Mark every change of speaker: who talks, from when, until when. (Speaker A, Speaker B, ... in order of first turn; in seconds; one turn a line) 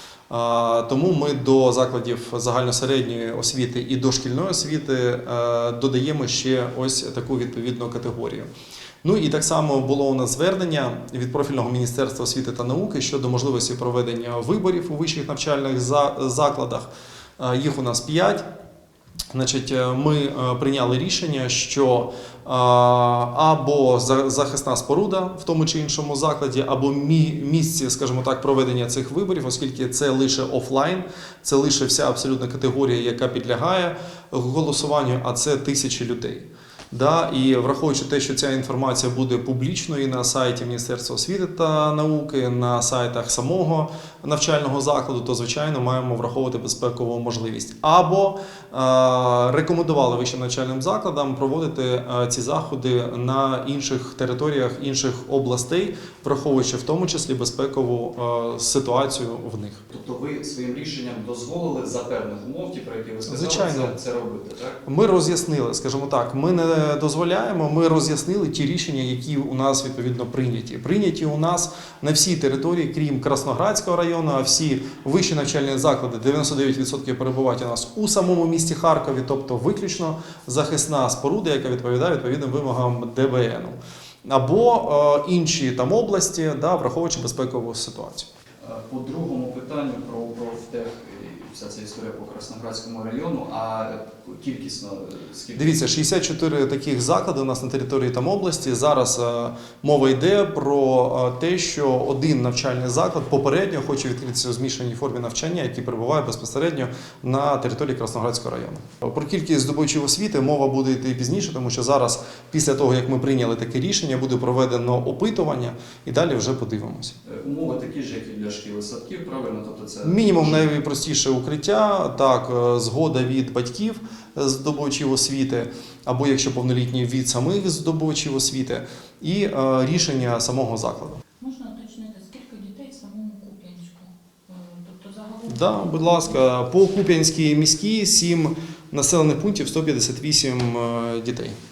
Speaker A: 0.3-8.5
Speaker A: 9.0-18.4
Speaker A: 19.3-59.9
Speaker B: 59.9-64.8
Speaker A: 63.3-64.0
Speaker A: 64.9-88.3
Speaker B: 88.6-96.0
Speaker A: 95.6-117.2
Speaker B: 117.2-120.7
Speaker A: 120.0-131.2
Speaker C: 131.4-136.4
Speaker A: 135.5-141.6